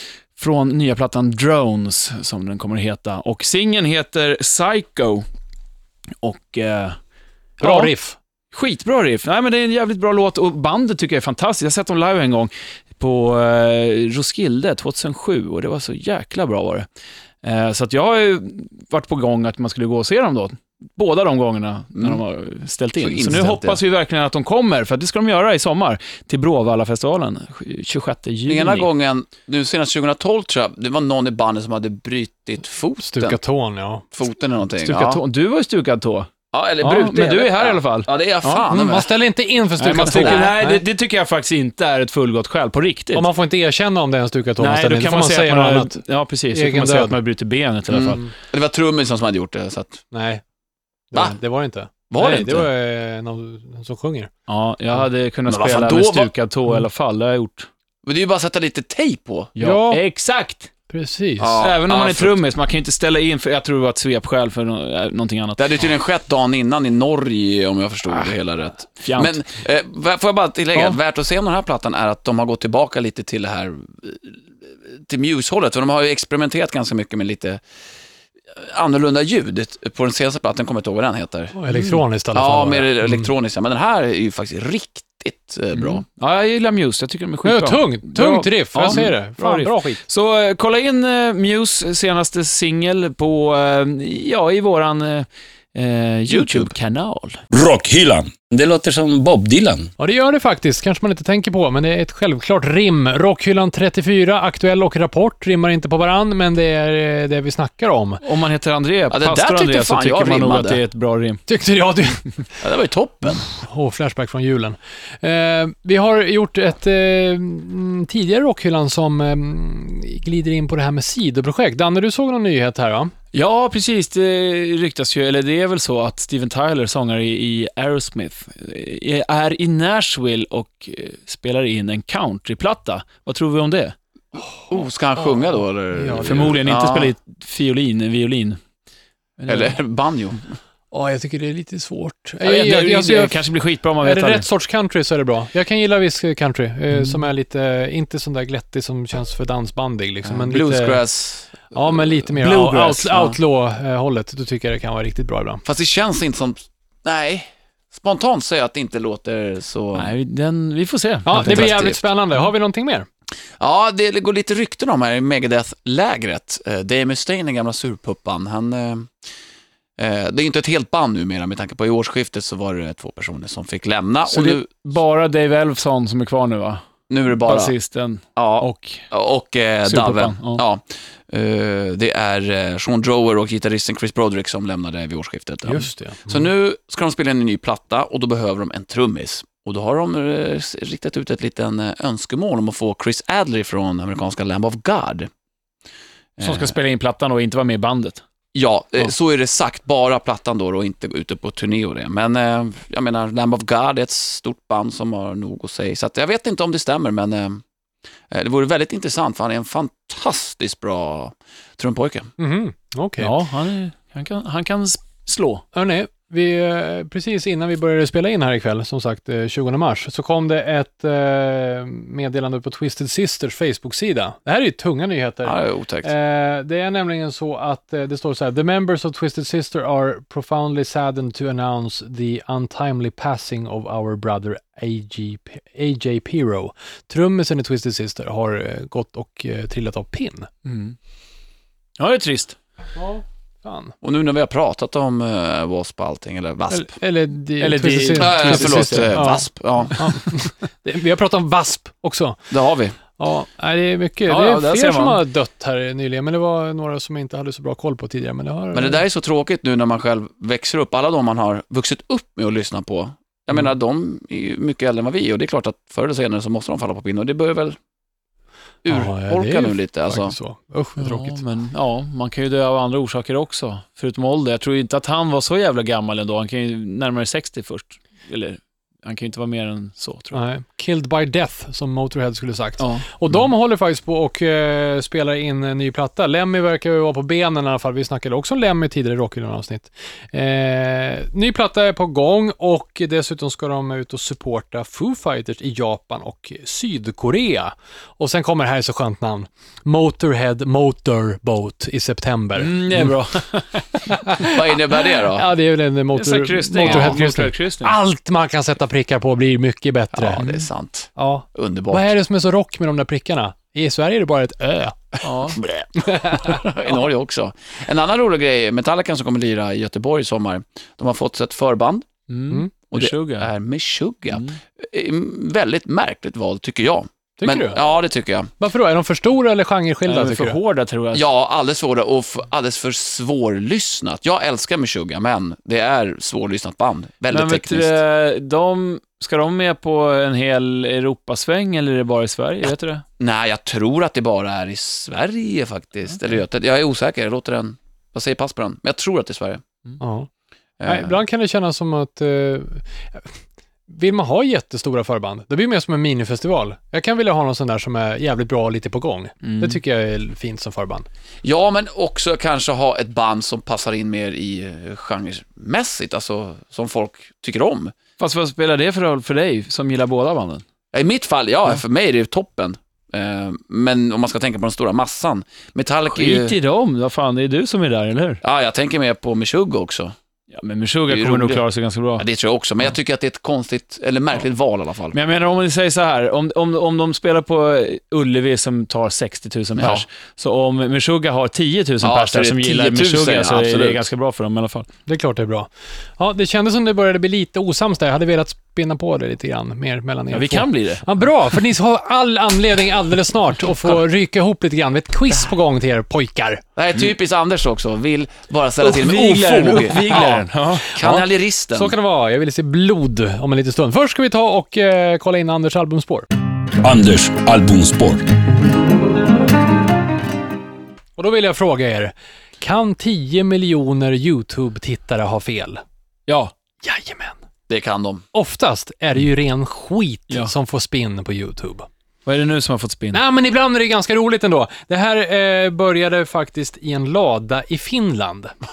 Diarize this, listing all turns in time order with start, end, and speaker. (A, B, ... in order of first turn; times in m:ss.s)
0:00.4-0:05.2 A
0:06.2-0:07.0 A
0:07.6-0:07.9 A
0:07.6-0:08.2 B
0:08.5-0:16.8 A
0:17.4-0:28.9 A
0:23.0-0:23.8 C
0:28.5-0:33.4 C
0:33.0-0:34.0 B
0:34.1-0:35.2 C
0:34.8-0:36.3 A
0:36.5-0:39.1 C
0:36.8-0:38.6 A
0:38.7-0:40.8 B
0:39.8-0:43.3 A
0:40.1-0:40.5 C
0:43.1-0:46.0 B
0:44.6-0:48.2 A
0:46.5-0:47.2 B
0:47.9-0:50.0 C
0:50.1-0:50.4 B
0:51.1-0:54.3 B
0:52.1-0:52.7 C
0:54.5-0:57.7 A
0:55.5-0:56.3 C
0:58.0-0:59.5 C
0:59.6-1:00.7 A
0:59.6-1:00.0 B
1:00.9-1:01.6 B
1:01.4-1:02.4 C
1:01.6-1:05.7 A
1:05.6-1:17.6 C
1:09.0-1:09.3 A
1:18.5-1:26.0 C
1:21.5-1:23.3 B
1:25.7-1:37.4 A
1:27.4-1:30.0 B
1:36.3-1:36.7 C
1:37.5-1:39.9 D
1:40.0-1:48.2 B
1:48.2-1:51.4 A
1:49.1-1:50.8 C
1:51.5-1:52.3 B
1:52.6-1:53.4 C
1:53.4-2:03.1 B
2:03.3-2:13.9 A
2:14.7-2:17.1 C
2:15.9-2:16.5 B
2:16.2-2:18.6 A
2:19.4-2:19.7 A
2:19.5-2:20.4 C
2:20.9-2:23.4 B
2:22.4-2:24.4 A
2:24.0-2:31.0 B
2:30.2-2:31.7 C
2:31.7-2:35.6 B
2:32.4-2:33.2 A
2:35.6-2:40.1 C
2:39.9-2:41.7 A
2:41.2-2:43.1 B
2:41.3-2:42.0 C
2:43.6-2:49.1 C
2:50.0-2:54.6 C
2:54.2-2:56.8 A
2:57.1-2:57.7 C
2:57.4-2:59.0 A
2:58.4-3:15.3 C
2:59.8-3:00.6 A
3:05.6-3:06.4 B
3:16.4-3:16.7 C
3:16.4-3:18.2 A
3:18.5-3:27.6 C
3:28.3-3:32.3 C
3:32.4-3:33.3 B
3:33.2-3:35.6 A
3:35.7-4:00.5 B
3:45.4-3:46.1 C
4:00.6-4:00.9 A
4:02.0-4:02.6 A
4:03.0-4:03.9 B
4:04.0-4:07.0 C
4:06.7-4:12.5 B
4:07.6-4:09.2 A
4:08.2-4:10.2 C
4:12.5-4:13.0 C
4:13.2-4:19.0 B
4:14.3-4:15.2 A
4:18.7-4:27.8 C
4:28.8-4:30.3 C
4:28.9-4:31.4 B
4:31.0-4:40.3 A
4:40.3-5:03.1 B
4:42.8-4:43.0 A
5:02.6-5:04.0 A
5:04.1-5:10.4 B
5:04.4-5:05.5 C
5:06.1-5:07.9 A
5:06.8-5:07.2 C
5:10.2-5:12.1 C
5:10.4-5:10.6 A
5:11.2-5:15.2 B
5:15.2-5:15.6 A
5:15.6-5:22.1 C
5:16.1-5:16.5 B
5:22.3-5:23.5 A
5:22.9-5:28.5 C
5:27.4-5:27.8 B
5:28.6-5:30.6 B
5:30.1-5:31.2 A
5:31.1-5:38.0 C
5:37.3-5:43.0 A
5:43.2-5:49.6 C
5:50.0-5:50.3 B
5:50.8-5:51.2 C
5:50.8-5:53.3 B
5:53.9-6:01.0 B
5:59.4-5:59.8 A
6:01.4-6:07.9 C
6:08.2-6:10.6 A
6:10.9-6:16.5 C
6:16.1-6:18.4 A
6:18.4-6:20.1 C
6:20.5-6:22.2 A
6:21.1-6:21.6 C
6:22.2-6:25.2 C
6:25.1-6:34.9 A
6:29.8-6:30.0 C
6:32.0-6:34.0 C
6:35.1-6:46.6 B
6:40.3-6:41.0 A
6:46.8-6:50.3 C
6:48.8-6:51.1 A
6:49.9-6:50.4 B
6:50.8-6:51.9 C
6:51.7-6:56.3 B
6:56.8-6:58.3 D
7:01.2-7:05.8 B
7:06.3-7:06.5 A
7:06.8-7:07.4 B
7:07.7-7:08.2 C
7:08.3-7:11.9 B
7:12.2-7:13.2 A
7:13.1-7:18.5 B